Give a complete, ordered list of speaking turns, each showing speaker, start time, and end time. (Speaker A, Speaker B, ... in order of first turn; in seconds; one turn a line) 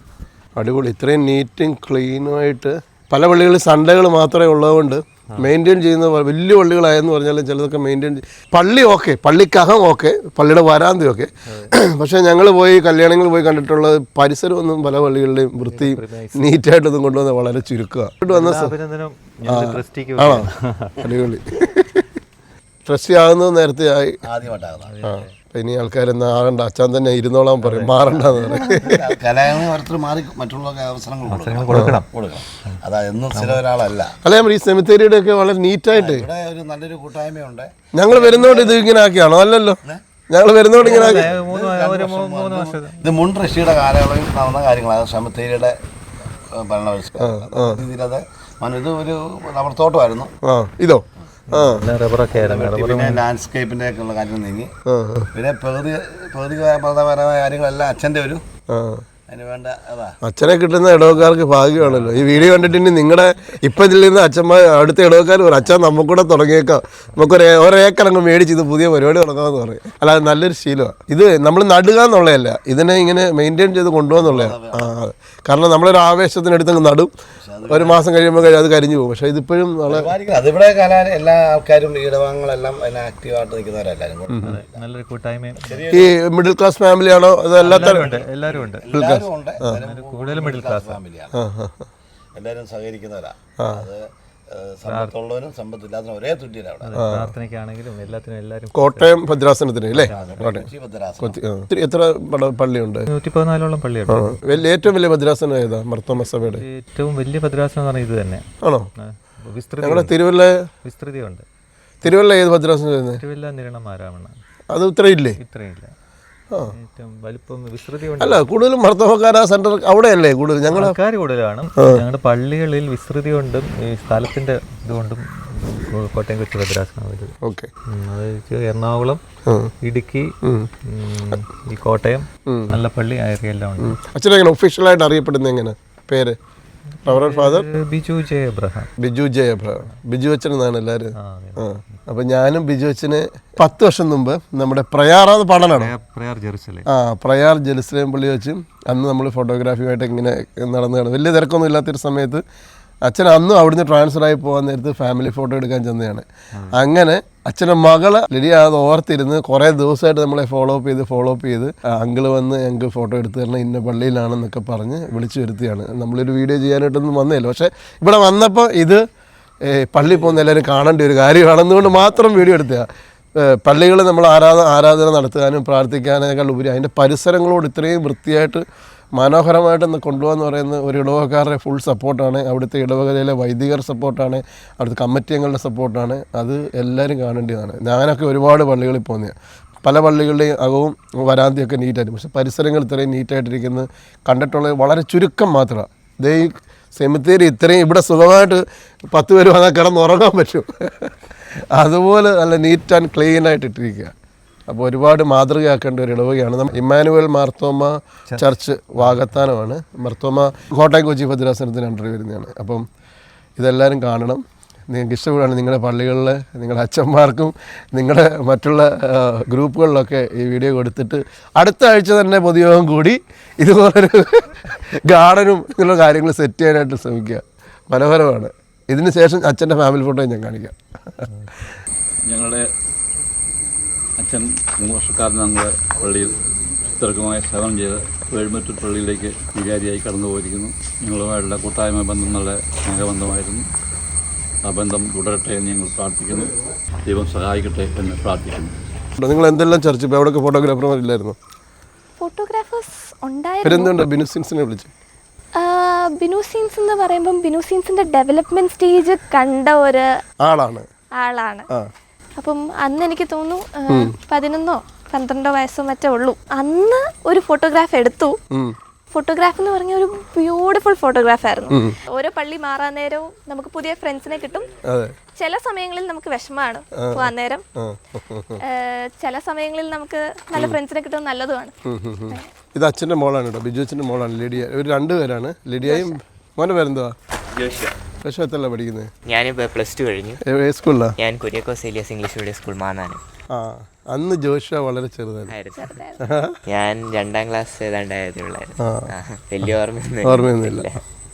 Speaker A: 0.6-18.8
Speaker B: 11.5-11.7
Speaker B: 15.6-16.5
Speaker B: 18.3-20.9
Speaker A: 19.5-20.5
Speaker A: 21.0-22.1
Speaker A: 22.9-24.2
Speaker C: 24.2-24.9
Speaker B: 24.7-25.3
Speaker A: 25.0-29.1
Speaker B: 27.6-28.9
Speaker C: 28.1-34.2
Speaker B: 31.3-32.1
Speaker A: 31.7-32.0
Speaker B: 33.3-33.6
Speaker A: 34.2-36.3
Speaker C: 35.9-38.8
Speaker A: 37.9-41.3
Speaker B: 40.7-43.0
Speaker C: 40.8-45.8
Speaker C: 46.5-50.4
Speaker A: 47.2-47.8
Speaker A: 50.4-51.9
Speaker B: 51.5-53.2
Speaker C: 52.3-54.7
Speaker A: 54.9-55.3
Speaker C: 55.3-58.4
Speaker A: 58.7-59.0
Speaker C: 59.3-60.2
Speaker A: 60.2-77.1
Speaker B: 61.8-62.5
Speaker C: 74.2-75.0
Speaker C: 77.4-78.0
Speaker A: 77.7-80.1
Speaker C: 79.9-84.8
Speaker A: 84.3-84.6
Speaker B: 84.4-85.8
Speaker C: 85.6-86.2
Speaker A: 85.9-88.1
Speaker C: 87.6-91.4
Speaker B: 87.6-88.9
Speaker A: 88.9-89.8
Speaker B: 89.7-91.0
Speaker A: 91.3-91.9
Speaker C: 92.3-97.0
Speaker B: 94.8-95.1
Speaker B: 96.8-99.2
Speaker A: 97.0-97.3
Speaker A: 98.7-100.7
Speaker C: 99.9-101.4
Speaker B: 100.0-100.7
Speaker A: 101.2-103.1
Speaker B: 103.1-104.9
Speaker A: 104.1-106.6
Speaker B: 106.2-108.5
Speaker A: 108.6-108.9
Speaker B: 109.0-110.2
Speaker A: 109.8-110.6
Speaker B: 110.8-111.4
Speaker A: 112.0-113.2
Speaker B: 113.2-114.3
Speaker A: 114.7-115.4
Speaker B: 115.4-115.9
Speaker B: 116.7-118.5
Speaker A: 118.2-121.0
Speaker B: 120.7-127.3
Speaker A: 121.8-122.0
Speaker A: 127.4-127.7
Speaker B: 127.9-129.2
Speaker B: 129.8-130.3
Speaker A: 130.4-130.7
Speaker B: 130.9-134.0
Speaker A: 132.5-132.8
Speaker A: 133.8-136.4
Speaker B: 137.0-138.9
Speaker A: 137.1-137.7
Speaker A: 139.0-145.9
Speaker B: 141.2-142.1
Speaker B: 145.7-146.9
Speaker A: 146.9-152.4
Speaker A: 153.1-169.0
Speaker A: 169.7-172.9
Speaker A: 173.4-178.6
Speaker A: 179.2-204.1
Speaker A: 204.7-212.8
Speaker B: 209.0-209.4
Speaker A: 213.6-231.3
Speaker D: 232.3-232.7
Speaker D: 234.2-236.3
Speaker D: 236.9-243.7
Speaker D: 244.7-246.6
Speaker D: 247.1-248.7
Speaker A: 249.2-251.4
Speaker E: 252.2-254.0
Speaker A: 253.6-254.9
Speaker E: 255.6-260.1
Speaker A: 260.4-260.9
Speaker E: 261.2-261.7
Speaker E: 262.4-268.4
Speaker A: 263.9-264.1
Speaker E: 269.1-274.7
Speaker A: 271.7-272.0
Speaker A: 274.9-275.1
Speaker E: 275.4-277.6
Speaker A: 277.0-278.6
Speaker E: 278.6-281.7
Speaker A: 281.9-287.1
Speaker E: 285.8-286.1
Speaker F: 287.6-287.9
Speaker A: 288.2-289.1
Speaker F: 289.3-290.4
Speaker A: 290.4-291.1
Speaker F: 291.2-293.2
Speaker A: 293.5-295.6
Speaker F: 295.5-295.8
Speaker E: 295.7-296.3
Speaker A: 296.2-296.6
Speaker F: 296.7-301.0
Speaker A: 298.8-299.1
Speaker A: 300.2-301.0